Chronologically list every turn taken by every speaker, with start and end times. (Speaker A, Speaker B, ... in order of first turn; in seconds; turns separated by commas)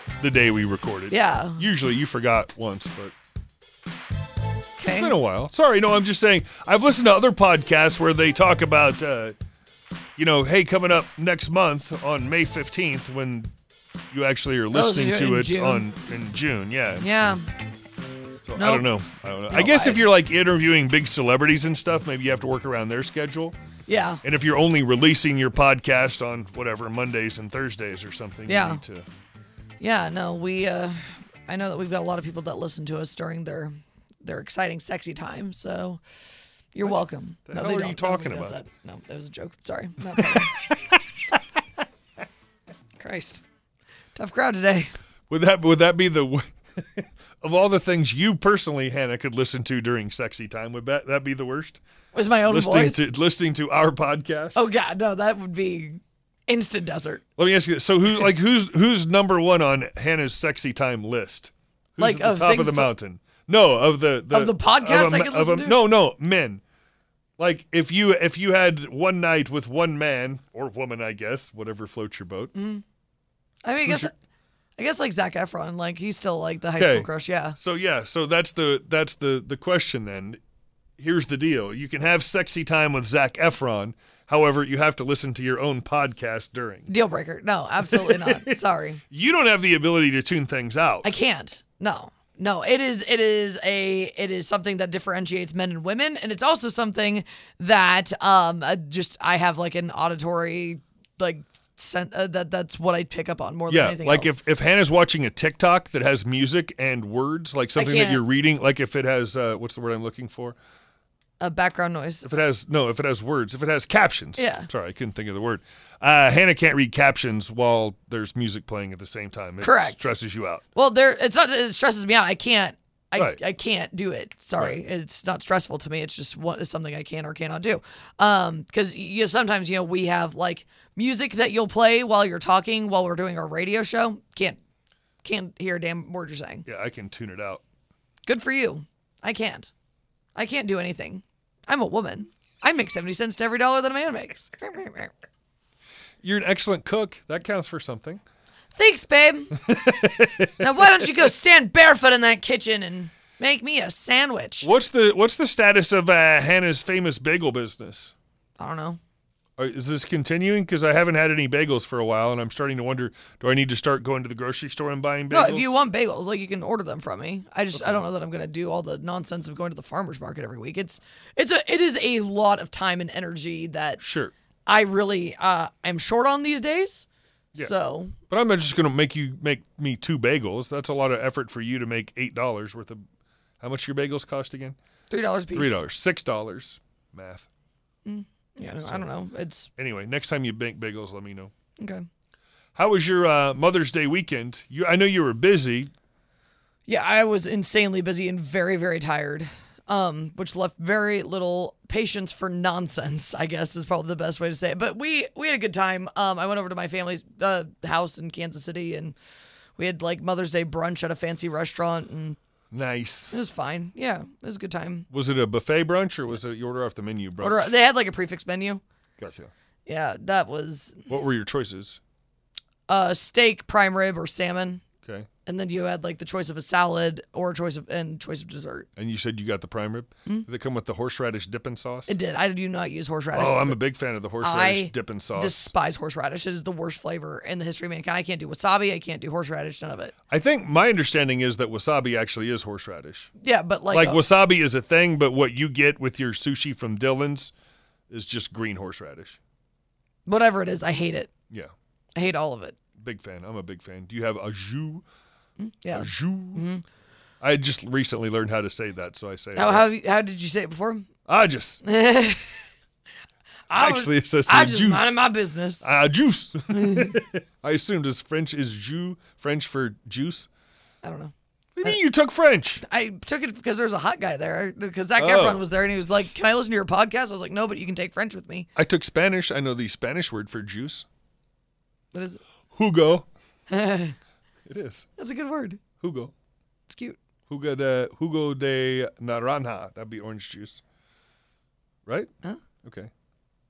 Speaker A: 0.2-3.1, Speaker B: 1.1-1.6, Speaker B: 4.8-5.2, Speaker A: 4.9-9.3, Speaker A: 10.2-13.5, Speaker A: 14.1-17.1, Speaker B: 14.7-15.8, Speaker B: 17.0-17.4, Speaker A: 18.4-23.6, Speaker B: 18.6-18.9, Speaker B: 19.5-20.1, Speaker B: 23.9-24.2, Speaker A: 24.2-29.1, Speaker B: 28.5-28.8, Speaker B: 29.8-33.7, Speaker B: 34.2-36.0, Speaker B: 36.7-40.6, Speaker A: 36.8-38.6, Speaker A: 40.2-41.3, Speaker B: 43.0-43.4, Speaker B: 44.1-44.9, Speaker A: 45.3-51.8, Speaker B: 52.1-53.1, Speaker A: 52.5-54.7, Speaker B: 54.5-57.2, Speaker A: 57.4-66.6, Speaker B: 62.0-62.9, Speaker B: 64.3-65.8, Speaker A: 67.4-72.5, Speaker B: 72.5-72.8, Speaker B: 73.6-74.1, Speaker A: 73.8-74.1, Speaker B: 74.8-77.6, Speaker A: 76.8-80.4, Speaker A: 81.0-86.9, Speaker B: 86.9-89.0, Speaker A: 87.9-88.5, Speaker A: 89.1-91.1, Speaker B: 91.0-104.3, Speaker A: 103.7-110.5, Speaker B: 107.8-108.2, Speaker B: 111.4-112.2, Speaker A: 112.2-120.6, Speaker B: 114.4-114.7, Speaker B: 119.6-120.1, Speaker B: 120.7-134.6, Speaker B: 135.2-136.6, Speaker A: 136.7-137.6, Speaker B: 138.2-139.7, Speaker B: 140.3-145.1, Speaker A: 146.2-148.2, Speaker B: 148.8-149.5, Speaker A: 149.6-151.1, Speaker B: 150.6-154.7, Speaker A: 154.6-158.1, Speaker B: 158.6-159.0, Speaker A: 159.6-165.7, Speaker B: 165.3-174.0, Speaker A: 167.7-168.0, Speaker A: 174.0-174.3, Speaker B: 174.7-178.2, Speaker A: 178.3-183.0, Speaker A: 183.6-184.8, Speaker B: 185.1-185.8, Speaker A: 185.5-187.5, Speaker B: 188.0-189.7, Speaker A: 188.8-189.1, Speaker A: 189.8-191.5, Speaker B: 191.8-192.1, Speaker A: 192.8-195.9, Speaker B: 196.9-209.2, Speaker B: 209.8-212.4, Speaker A: 212.7-213.4, Speaker B: 213.3-215.1, Speaker A: 215.1-217.7, Speaker B: 217.4-218.8, Speaker A: 219.2-219.5, Speaker B: 219.8-221.1, Speaker A: 221.1-222.0, Speaker B: 222.9-224.8, Speaker A: 225.0-225.3, Speaker B: 225.4-228.9, Speaker A: 229.0-232.1, Speaker B: 232.1-233.8, Speaker A: 233.3-235.7, Speaker B: 234.4-240.1, Speaker A: 240.3-243.3, Speaker B: 243.4-244.2, Speaker A: 243.9-247.5, Speaker A: 248.1-249.4, Speaker B: 250.2-251.3, Speaker B: 252.2-252.8, Speaker A: 253.0-255.0, Speaker B: 255.6-256.8, Speaker A: 255.9-256.6, Speaker A: 257.4-259.9, Speaker B: 259.6-261.1, Speaker A: 261.3-261.8, Speaker B: 261.8-262.7, Speaker B: 263.7-265.9, Speaker A: 263.7-265.2, Speaker A: 265.8-270.5, Speaker B: 266.7-267.1, Speaker B: 271.0-271.3, Speaker A: 271.8-272.8, Speaker B: 272.8-278.7, Speaker A: 275.2-275.6, Speaker A: 278.8-281.1, Speaker B: 282.1-282.4, Speaker A: 282.7-283.3, Speaker B: 283.7-284.1, Speaker A: 284.6-285.1, Speaker B: 285.2-285.8, Speaker A: 286.0-286.3, Speaker B: 286.9-287.2, Speaker A: 287.5-290.8, Speaker A: 292.8-293.1